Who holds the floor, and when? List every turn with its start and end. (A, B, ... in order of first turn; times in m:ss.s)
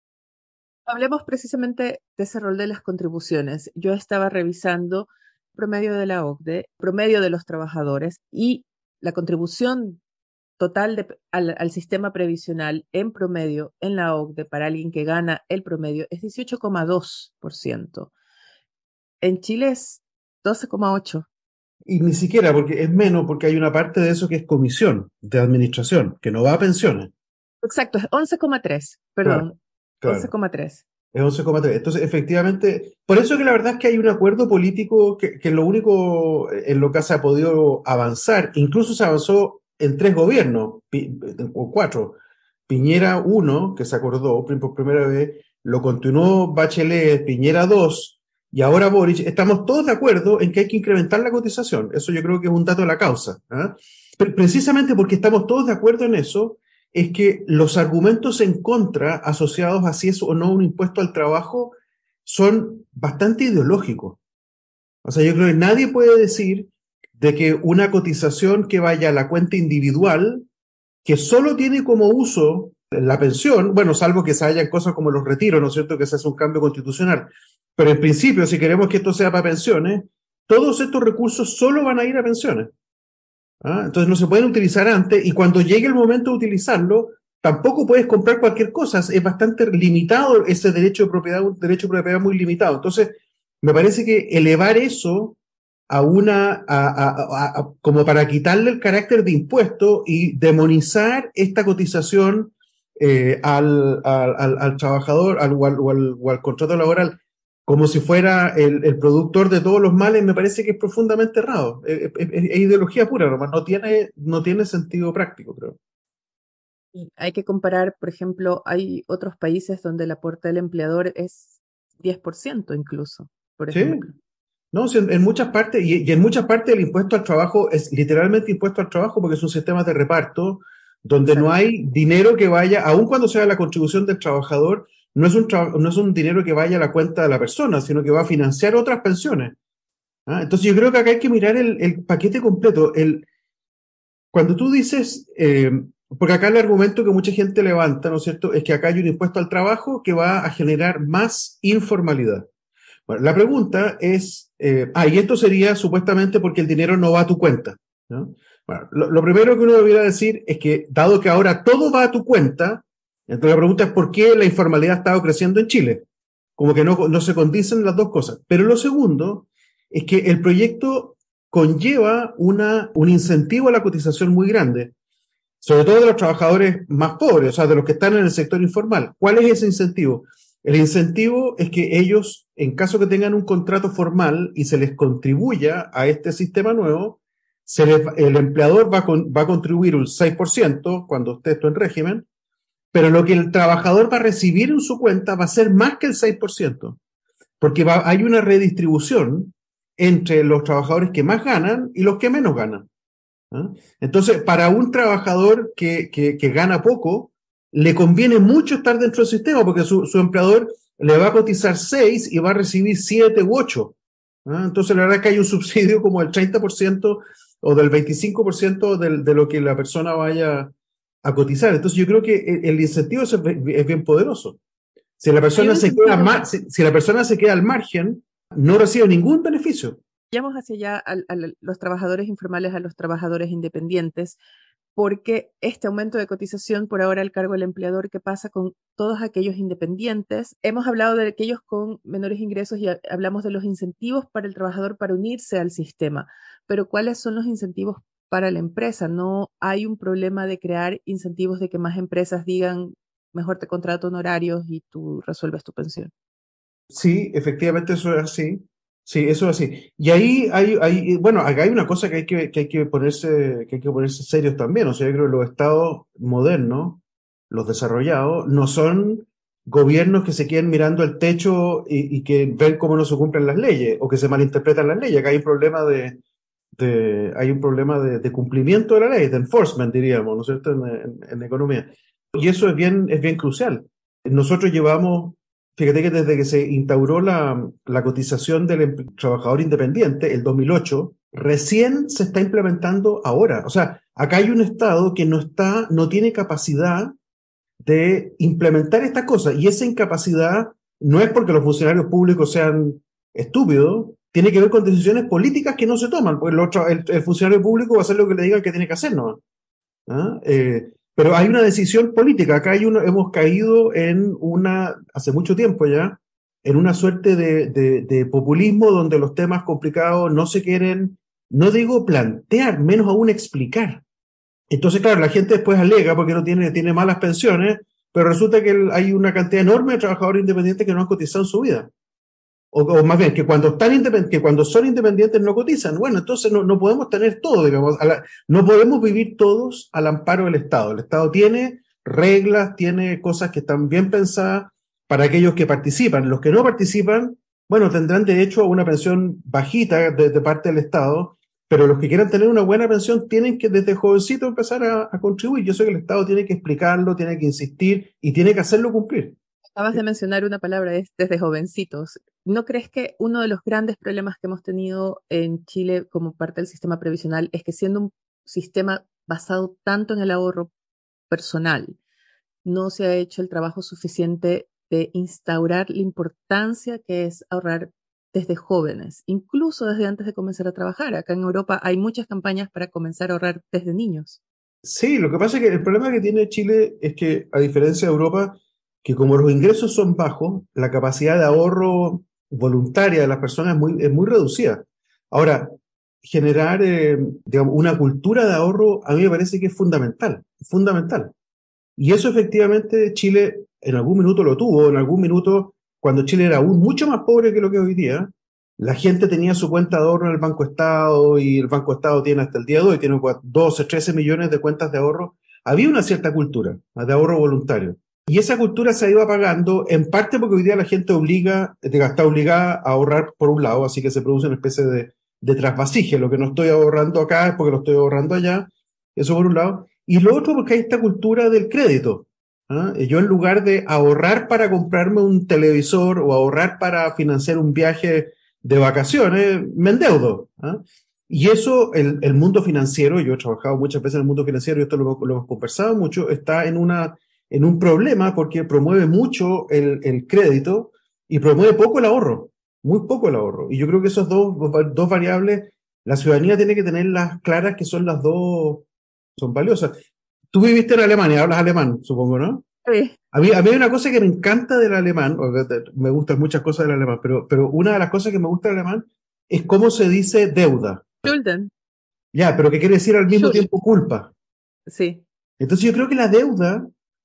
0:00.9-0:10.0 A
0:10.6-0:18.1 A
0:19.2-0:21.2 A
0:21.8-0:27.1 B
0:27.6-0:30.8 A
0:30.0-0:30.3 B
0:31.1-0:42.2 B
0:42.7-1:01.7 B
1:02.2-1:04.2 B
1:05.0-1:10.5 B
1:11.0-1:22.7 B
1:23.6-1:35.4 B
1:35.9-1:55.8 B
1:56.9-2:04.1 A
2:03.7-2:04.0 B
2:04.7-2:19.6 B
2:11.3-2:11.5 A
2:20.3-2:23.2 B
2:24.3-2:32.5 B
2:33.1-2:46.0 B
2:46.6-2:54.9 B
2:55.6-3:12.2 B
3:12.9-3:17.0 B
3:17.6-3:22.9 B
3:23.5-3:44.6 B
3:45.2-3:50.0 B
3:45.6-3:46.4 A
3:50.3-3:54.4 A
3:55.0-4:16.1 A
4:16.9-4:36.2 B
4:36.8-4:57.1 B
4:57.8-5:09.4 B
5:10.1-5:24.0 B
5:24.7-5:31.9 B
5:32.7-5:59.4 B
5:59.8-6:10.7 A
6:11.3-6:12.0 A
6:12.6-6:24.4 A
6:24.8-6:35.7 B
6:36.2-6:41.3 B
6:42.0-7:38.8 B
7:39.4-7:40.0 B
7:40.5-7:42.6 B
7:42.8-7:43.2 A
7:43.3-7:51.3 B
7:51.2-7:51.7 A
7:52.3-7:54.3 B
7:53.3-7:53.7 A
7:54.9-7:55.2 A
7:55.6-7:56.9 B